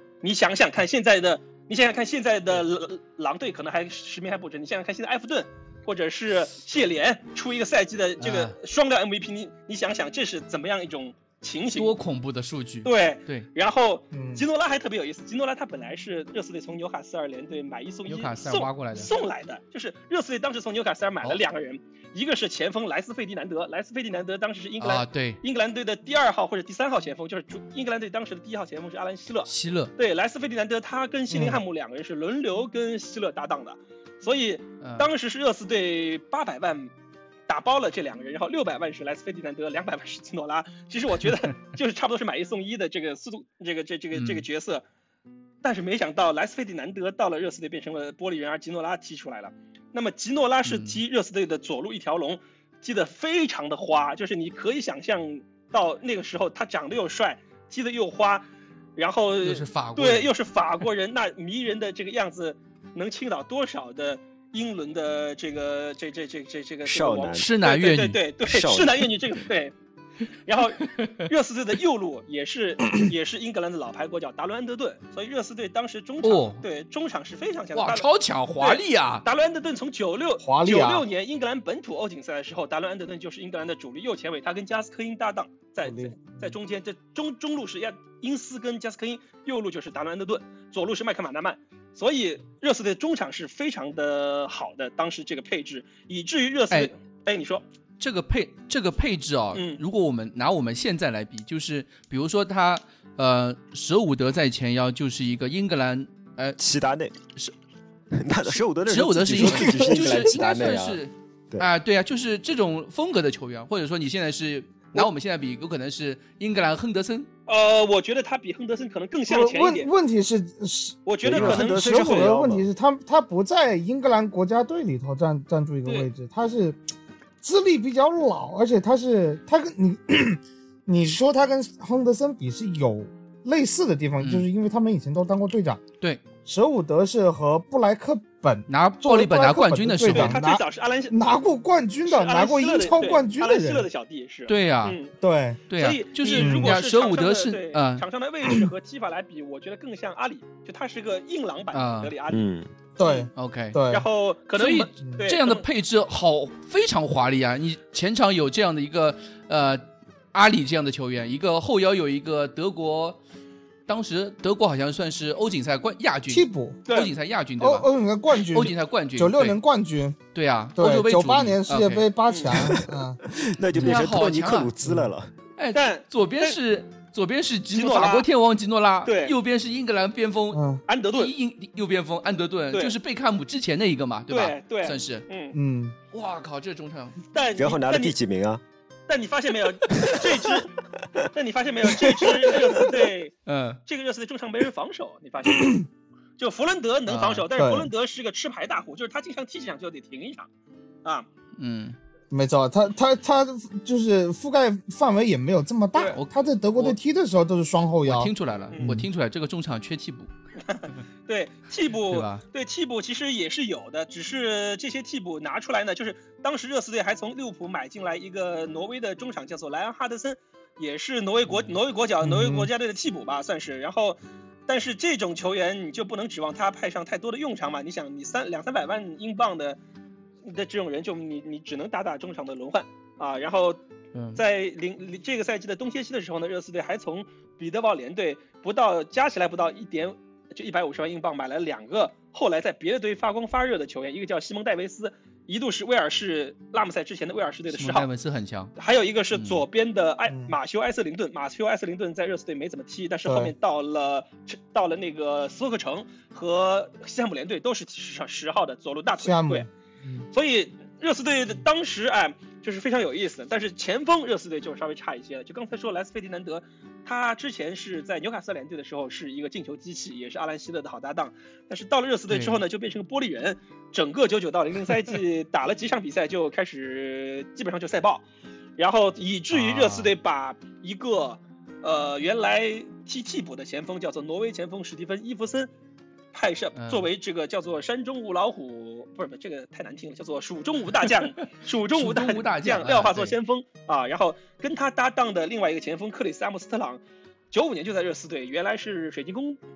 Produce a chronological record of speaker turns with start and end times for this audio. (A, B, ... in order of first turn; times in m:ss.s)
0:00.2-0:11.9 A
0:08.2-0:08.6 B
0:11.8-0:13.5 B
0:12.8-0:36.9 A
0:14.1-0:14.4 C
0:18.1-0:19.1 B
0:24.8-0:25.4 B
0:29.5-0:29.9 B
0:31.3-0:31.6 C
0:34.8-0:35.1 B
0:37.5-0:44.8 A
0:44.2-0:44.4 B
0:45.6-0:58.4 A
0:50.6-0:51.0 B
0:59.0-1:09.7 A
0:59.4-1:00.3 B
1:06.8-1:07.5 D
1:07.4-1:08.2 B
1:08.4-1:09.0 D
1:10.5-1:18.1 A
1:10.8-1:11.2 B
1:16.2-1:16.6 B
1:17.8-1:19.2 B
1:18.6-1:37.6 A
1:20.4-1:21.1 C
1:25.8-1:26.5 C
1:38.0-1:46.6 B
1:39.6-1:39.8 A
1:46.6-1:47.1 D
1:48.2-1:51.0 D
1:48.4-1:57.3 B
1:57.5-1:59.9 A
1:59.3-2:06.8 C
2:01.1-2:02.3 A
2:01.2-2:02.7 D
2:07.4-2:15.8 C
2:14.2-2:14.5 B
2:16.4-2:23.9 C
2:18.7-2:20.4 B
2:20.1-2:21.3 A
2:22.1-2:25.1 A
2:24.5-2:25.0 B
2:25.2-2:25.6 C
2:25.7-2:28.1 B
2:25.8-2:32.4 A
2:26.4-2:26.8 C
2:28.4-2:28.7 C
2:31.7-2:32.1 B
2:32.3-2:32.7 D
2:33.0-2:33.3 A
2:33.0-2:34.1 C
2:33.4-2:33.8 B
2:33.9-2:35.6 A
2:34.6-2:43.2 B
2:43.9-2:49.6 B
2:46.3-2:46.8 C
2:46.9-2:47.1 A
2:47.6-2:50.2 C
2:50.3-2:52.1 B
2:50.8-2:53.2 C
2:52.3-2:52.6 A
2:53.4-2:55.3 D
2:53.8-2:54.7 B
2:54.8-2:55.1 C
2:55.6-3:05.3 B
2:55.7-2:56.6 A
2:57.7-2:58.3 A
2:59.0-2:59.4 A
3:00.5-3:00.8 C
3:00.9-3:01.3 A
3:04.3-3:05.6 A
3:05.5-3:06.0 C
3:06.1-3:07.2 B
3:07.3-3:08.2 A
3:07.6-3:08.6 D
3:09.1-3:10.7 A
3:11.3-3:13.4 A
3:13.5-3:13.8 B
3:13.9-3:15.9 A
3:15.5-3:15.8 C
3:16.4-3:20.5 A
3:17.1-3:17.4 B
3:17.6-3:17.9 C
3:21.6-3:22.0 B
3:22.3-3:29.1 C
3:26.1-3:27.0 B
3:28.0-3:30.3 B
3:30.7-3:49.8 A
3:32.1-3:32.4 B
3:42.2-3:42.7 C
3:50.4-3:53.8 A
3:54.1-3:54.4 B
3:54.4-4:08.1 A
4:07.7-4:08.7 B
4:08.8-4:19.7 A
4:09.3-4:09.6 B
4:10.3-4:10.6 C
4:13.3-4:13.5 C
4:19.2-4:20.3 C
4:20.3-4:45.7 A
4:32.3-4:32.6 B
4:39.5-4:40.1 B
4:46.3-4:59.6 A
4:46.8-4:47.1 B
4:51.9-4:53.4 B